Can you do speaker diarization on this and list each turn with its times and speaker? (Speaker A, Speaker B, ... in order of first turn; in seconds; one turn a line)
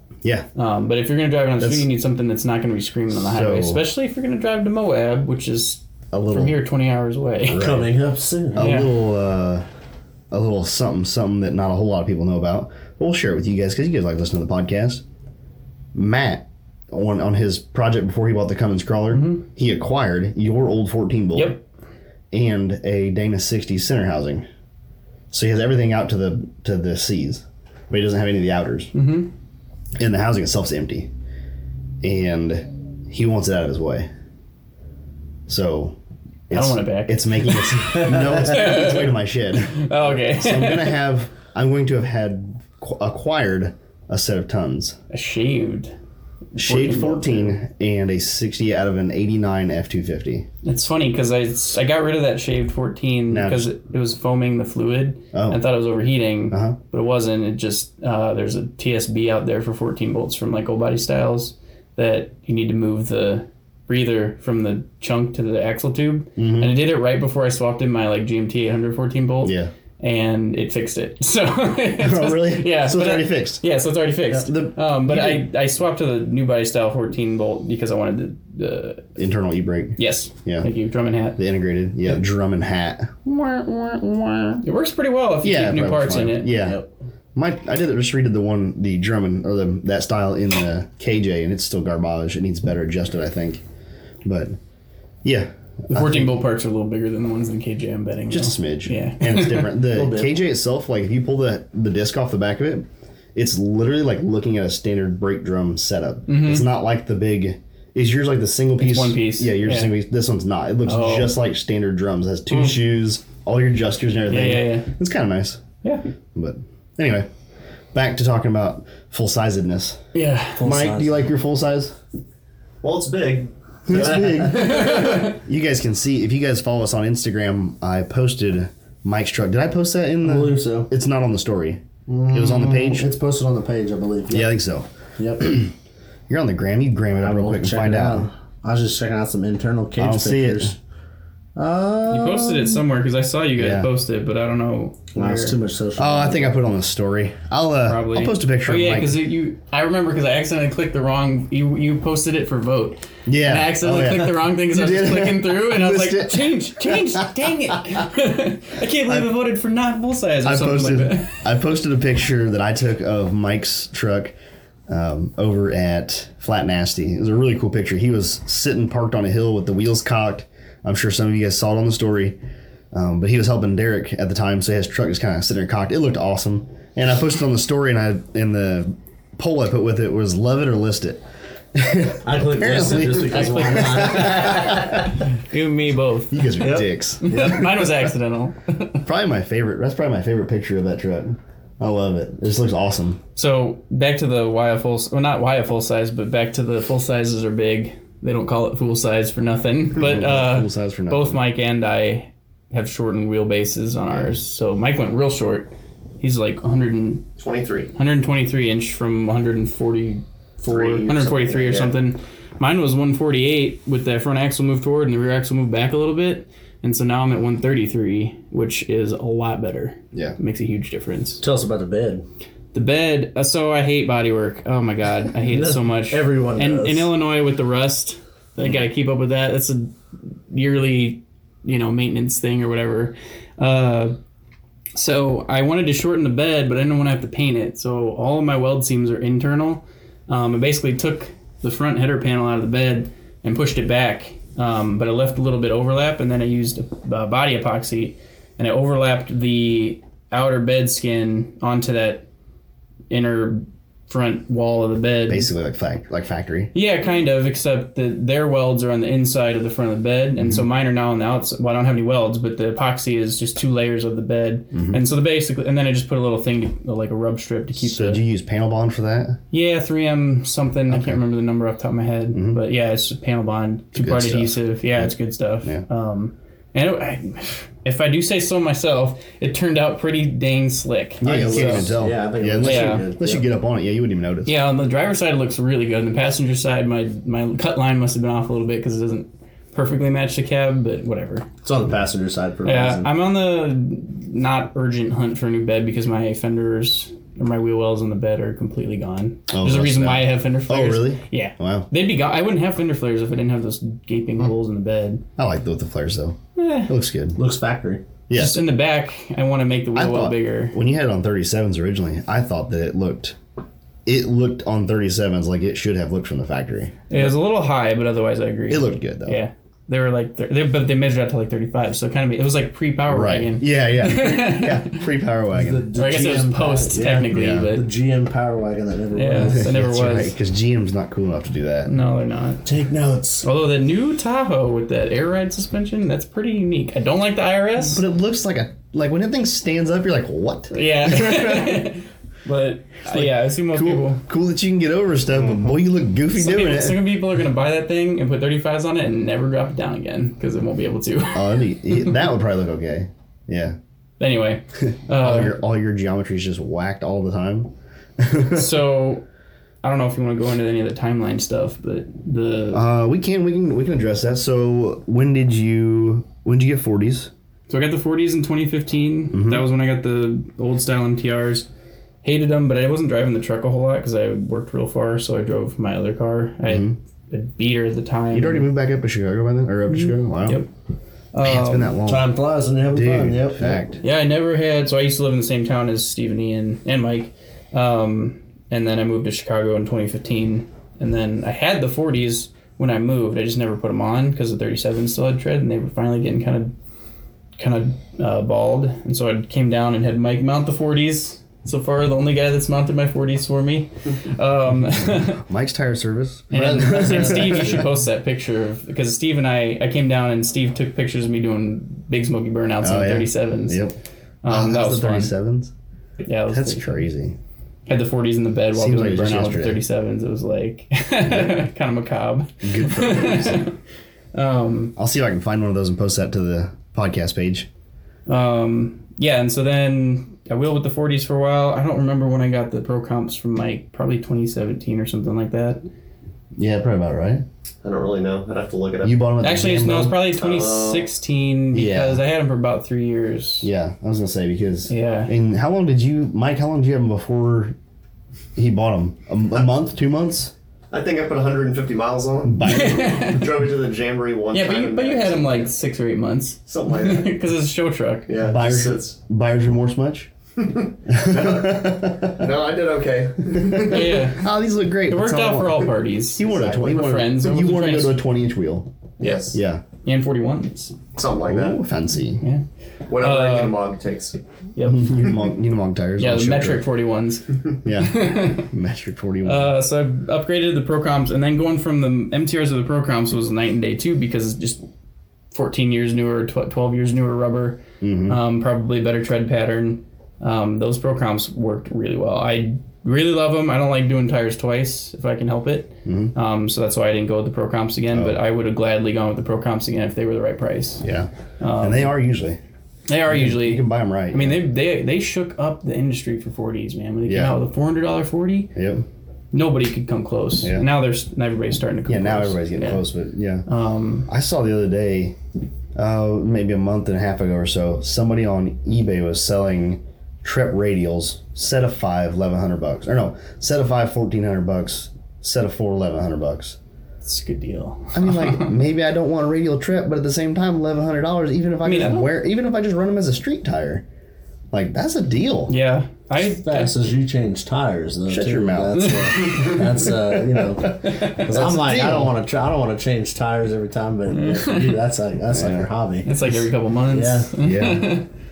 Speaker A: 0.6-7.7
Speaker B: 1.6-1.9
Speaker B: 3.1-3.8
Speaker B: 6.1-6.5
Speaker B: 7.5-7.9
Speaker C: 7.6-8.7
Speaker B: 8.5-9.7
Speaker A: 8.6-8.9
Speaker B: 10.3-15.0
Speaker B: 15.9-21.6
Speaker A: 19.1-19.4
Speaker A: 21.4-21.6
Speaker B: 22.3-24.5
Speaker B: 25.3-28.9
Speaker A: 28.9-29.3
Speaker B: 30.0-31.1
Speaker B: 32.0-34.1
Speaker B: 35.5-36.0
Speaker B: 36.5-45.0
Speaker A: 36.5-41.0
Speaker A: 45.1-45.9
Speaker A: 46.5-47.6
Speaker B: 46.6-50.5
Speaker A: 50.6-79.1
Speaker B: 53.3-53.7
Speaker B: 55.3-55.6
Speaker B: 56.5-56.8
Speaker B: 66.4-66.7
Speaker B: 69.4-69.7
Speaker B: 72.0-73.6
Speaker B: 74.3-75.5
Speaker B: 79.2-80.7
Speaker A: 80.0-81.4
Speaker B: 81.4-84.6
Speaker A: 84.6-86.5
Speaker B: 85.4-86.8
Speaker C: 86.6-86.9
Speaker B: 87.3-93.6
Speaker B: 94.2-94.6
Speaker B: 95.2-96.3
Speaker A: 95.9-99.8
Speaker B: 98.3-115.6
Speaker C: 99.9-100.3
Speaker A: 106.3-106.7
Speaker A: 108.8-109.9
Speaker A: 110.9-111.3
Speaker A: 114.3-114.9
Speaker B: 116.3-117.3
Speaker B: 117.9-120.0
Speaker A: 120.1-120.6
Speaker C: 120.6-121.2
Speaker B: 120.6-122.0
Speaker D: 122.8-124.2
Speaker B: 123.9-133.1
Speaker C: 123.9-124.7
Speaker A: 124.5-125.4
Speaker C: 130.2-130.9
Speaker C: 132.1-134.5
Speaker B: 134.3-134.9
Speaker C: 135.2-135.6
Speaker B: 135.4-135.7
Speaker B: 136.3-138.3
Speaker C: 137.2-140.8
Speaker B: 140.0-140.7
Speaker C: 141.6-142.8
Speaker A: 142.1-145.6
Speaker B: 143.6-143.9
Speaker C: 145.2-146.5
Speaker B: 146.0-149.2
Speaker A: 147.9-161.4
Speaker B: 153.3-158.0
Speaker B: 159.1-159.3
Speaker B: 160.4-164.3
Speaker B: 164.9-172.4
Speaker B: 172.9-185.1
Speaker C: 182.2-185.1
Speaker A: 183.2-189.0
Speaker B: 186.3-187.7
Speaker C: 186.6-187.8
Speaker B: 189.1-193.2
Speaker A: 193.4-207.3
Speaker B: 200.0-201.4
Speaker D: 207.4-207.9
Speaker A: 207.9-221.4
Speaker D: 210.7-211.9
Speaker C: 221.4-222.2
Speaker A: 222.7-229.9
Speaker C: 225.4-227.1
Speaker A: 230.5-234.2
Speaker A: 234.9-252.3
Speaker A: 253.1-255.5
Speaker B: 255.3-256.7
Speaker A: 256.7-268.2
Speaker B: 264.7-265.0
Speaker B: 267.8-269.4
Speaker A: 269.5-282.0
Speaker B: 270.9-271.2
Speaker B: 272.3-272.6
Speaker B: 273.9-275.1
Speaker C: 281.2-283.5
Speaker B: 281.2-284.5
Speaker A: 282.6-283.1
Speaker A: 284.4-291.5
Speaker C: 291.6-293.1
Speaker A: 292.6-305.2
Speaker B: 299.5-301.9
Speaker B: 305.4-306.4
Speaker A: 306.6-306.9
Speaker B: 306.9-307.4
Speaker C: 307.4-308.0
Speaker B: 308.3-308.6
Speaker A: 308.3-310.8
Speaker B: 309.9-313.4
Speaker B: 314.1-317.3
Speaker A: 317.1-325.0
Speaker B: 318.7-319.4
Speaker B: 323.1-325.9
Speaker C: 325.5-329.8
Speaker A: 325.9-327.9
Speaker B: 327.3-327.7
Speaker A: 329.1-330.4
Speaker B: 329.5-331.9
Speaker A: 331.9-332.6
Speaker C: 332.6-333.5
Speaker A: 333.4-338.0
Speaker B: 337.9-341.9
Speaker A: 340.7-344.2
Speaker B: 343.1-347.1
Speaker A: 346.4-351.6
Speaker B: 351.3-353.8
Speaker A: 354.2-355.6
Speaker B: 354.8-358.7
Speaker A: 358.5-359.2
Speaker A: 359.8-362.8
Speaker B: 362.7-367.3
Speaker A: 367.7-371.7
Speaker B: 369.3-369.6
Speaker A: 372.2-378.7
Speaker B: 376.7-377.0
Speaker B: 378.3-380.6
Speaker A: 379.9-380.7
Speaker A: 381.3-381.9
Speaker B: 381.4-382.3
Speaker C: 382.1-383.8
Speaker B: 382.9-384.0
Speaker A: 384.0-396.7
Speaker A: 397.6-405.4
Speaker B: 405.4-407.9
Speaker A: 406.5-413.8
Speaker C: 406.6-407.7
Speaker B: 412.8-415.7
Speaker A: 414.4-415.3
Speaker A: 416.2-417.0
Speaker B: 416.5-417.4
Speaker A: 417.9-423.8
Speaker B: 418.7-419.8
Speaker B: 422.6-423.7
Speaker A: 424.3-424.9
Speaker B: 425.0-427.7
Speaker A: 428.3-435.8
Speaker B: 436.6-437.4
Speaker D: 437.8-439.2
Speaker B: 439.0-440.2
Speaker A: 439.4-443.7
Speaker D: 440.3-441.1
Speaker B: 441.7-442.2
Speaker B: 443.6-447.8
Speaker A: 444.9-445.3
Speaker B: 448.6-450.5
Speaker D: 450.9-455.7
Speaker B: 452.4-453.3
Speaker A: 452.6-453.5
Speaker A: 454.5-458.3
Speaker D: 456.7-457.3
Speaker D: 458.3-459.2
Speaker B: 458.4-460.3
Speaker D: 460.6-464.2
Speaker B: 461.1-462.5
Speaker B: 463.6-468.9
Speaker A: 463.9-464.5
Speaker A: 465.1-468.2
Speaker D: 466.5-466.9
Speaker D: 469.2-469.6
Speaker B: 469.5-469.8
Speaker A: 470.0-471.0
Speaker D: 471.1-471.8
Speaker B: 471.4-472.4
Speaker D: 473.1-474.4
Speaker A: 473.2-473.8
Speaker A: 474.8-475.4
Speaker B: 474.9-476.8
Speaker A: 476.2-478.7
Speaker B: 477.8-479.7
Speaker A: 479.4-484.9
Speaker A: 485.5-501.1
Speaker B: 488.0-488.4
Speaker B: 496.1-496.3
Speaker B: 498.1-498.4
Speaker B: 501.0-502.6
Speaker A: 501.6-502.2
Speaker A: 503.1-508.7
Speaker B: 503.3-504.6
Speaker B: 507.3-507.6
Speaker B: 508.8-509.1
Speaker A: 509.5-513.0
Speaker B: 510.6-510.9
Speaker B: 512.1-513.7
Speaker A: 513.7-514.3
Speaker B: 514.3-515.4
Speaker B: 516.0-526.8
Speaker A: 527.2-528.8
Speaker B: 528.1-534.0
Speaker A: 531.8-532.3
Speaker B: 534.7-535.7
Speaker A: 535.7-536.9
Speaker C: 536.4-546.4
Speaker B: 538.3-540.2
Speaker A: 539.0-539.8
Speaker B: 540.8-542.3
Speaker A: 541.0-541.5
Speaker A: 544.4-544.9
Speaker B: 545.5-545.9
Speaker A: 546.2-548.3
Speaker C: 547.1-547.5
Speaker B: 547.6-548.2